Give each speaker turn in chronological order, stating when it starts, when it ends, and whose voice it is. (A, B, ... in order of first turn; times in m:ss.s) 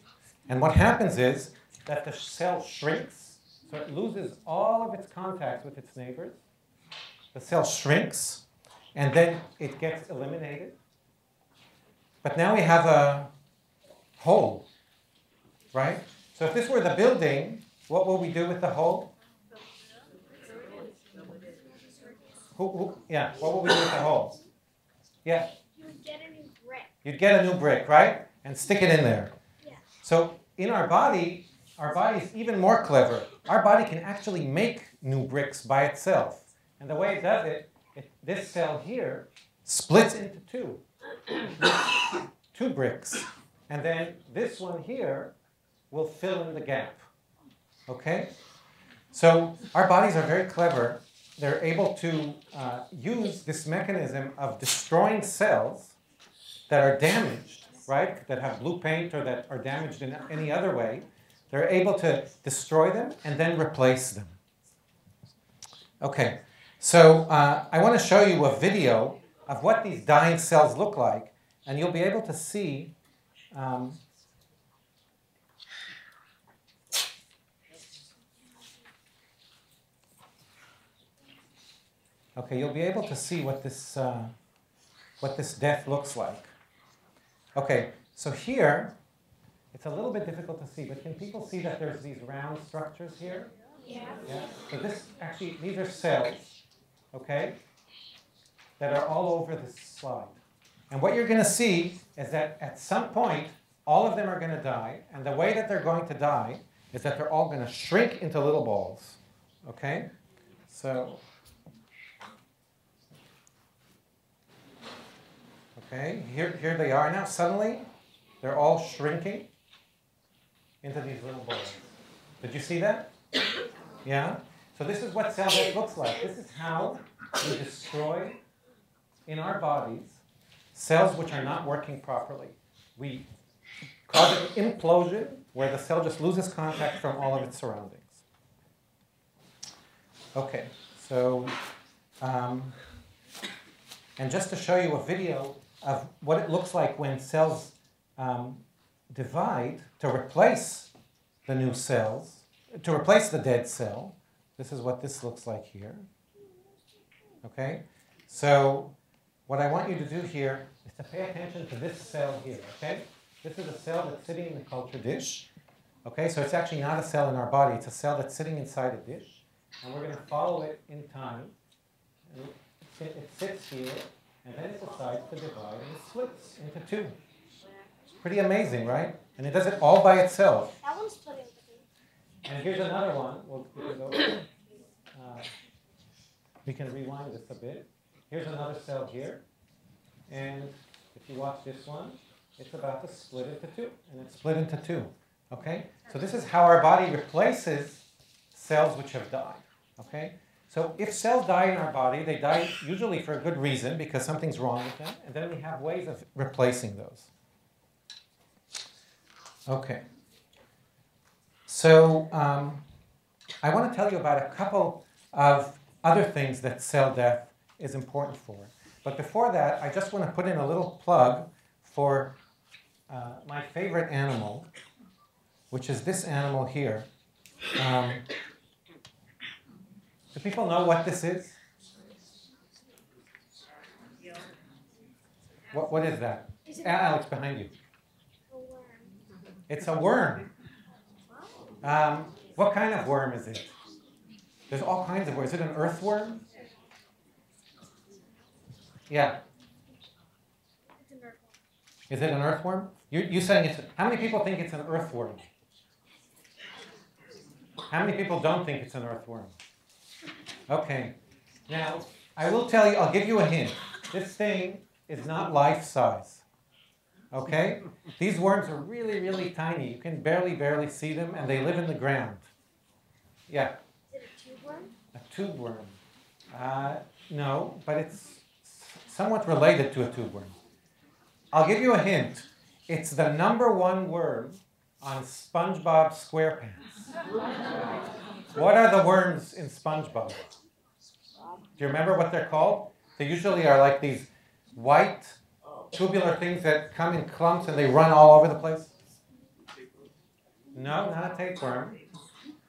0:00.5-0:06.4 A
0:07.3-0:08.4 A
0:08.9-0:10.8 A
0:12.2-0:13.3 A
0:14.2-0:14.6 A
0:15.7-0:19.1 A
0:22.6-0:24.4 A
0:25.2-0:25.5 A
0:25.7-0:26.9 B
0:27.0-0:29.3 A
0:30.0-0:40.8 A
0:41.6-0:41.9 A
0:42.5-0:45.3 A
0:45.9-0:47.0 A
0:47.9-0:48.3 A
0:49.1-0:56.0 A
0:56.7-1:04.4 A
1:06.0-1:12.9 A
1:13.5-1:14.0 A
1:22.4-1:24.3 A
1:25.2-1:26.5 A
1:27.5-1:29.0 A
1:29.7-1:33.5 A
1:33.8-1:34.2 B
1:34.2-1:36.6 A
1:37.1-1:37.6 A
1:38.8-1:40.4 A
1:40.9-1:50.1 A
1:50.7-1:51.2 A
1:55.8-1:57.9 A
1:58.4-1:59.5 A
2:00.8-2:01.9 A
2:02.4-2:03.1 A
2:04.0-2:08.4 A
2:09.2-2:10.2 A
2:10.7-2:13.3 A
2:14.1-2:18.2 A
2:20.3-2:21.6 A
2:22.2-2:22.8 A
2:24.2-2:30.9 A
2:31.4-2:36.1 A
2:37.4-2:39.0 A
2:39.5-2:45.5 A
2:46.0-2:51.6 A
2:52.3-2:57.2 A
2:58.2-3:00.8 A
3:00.8-3:01.9 B
3:02.4-3:04.5 A
3:05.1-3:05.5 A
3:06.6-3:09.4 A
3:10.3-3:27.3 A
3:29.7-3:30.0 A
3:31.7-3:32.8 A
3:33.6-3:42.4 A
3:43.1-3:44.7 A
3:45.7-3:47.1 A
3:47.8-3:48.2 A
3:50.3-3:51.6 A
3:55.7-3:57.7 A
3:56.6-3:57.2 B
3:58.5-3:59.1 B
3:59.7-4:00.5 A
4:01.8-4:03.7 A
4:04.7-4:06.4 A
4:09.1-4:09.4 A
4:11.0-4:11.5 B
4:12.1-4:15.5 A
4:17.9-4:19.5 A
4:20.7-4:21.2 A
4:21.7-4:26.4 A
4:27.3-4:32.5 A
4:33.5-4:33.8 A
4:34.1-4:34.9 B
4:35.1-4:36.0 A
4:36.5-4:40.6 A
4:41.5-4:47.0 A
4:48.5-4:50.4 A
4:51.8-4:55.4 A
4:55.9-4:58.9 A
5:00.7-5:02.0 A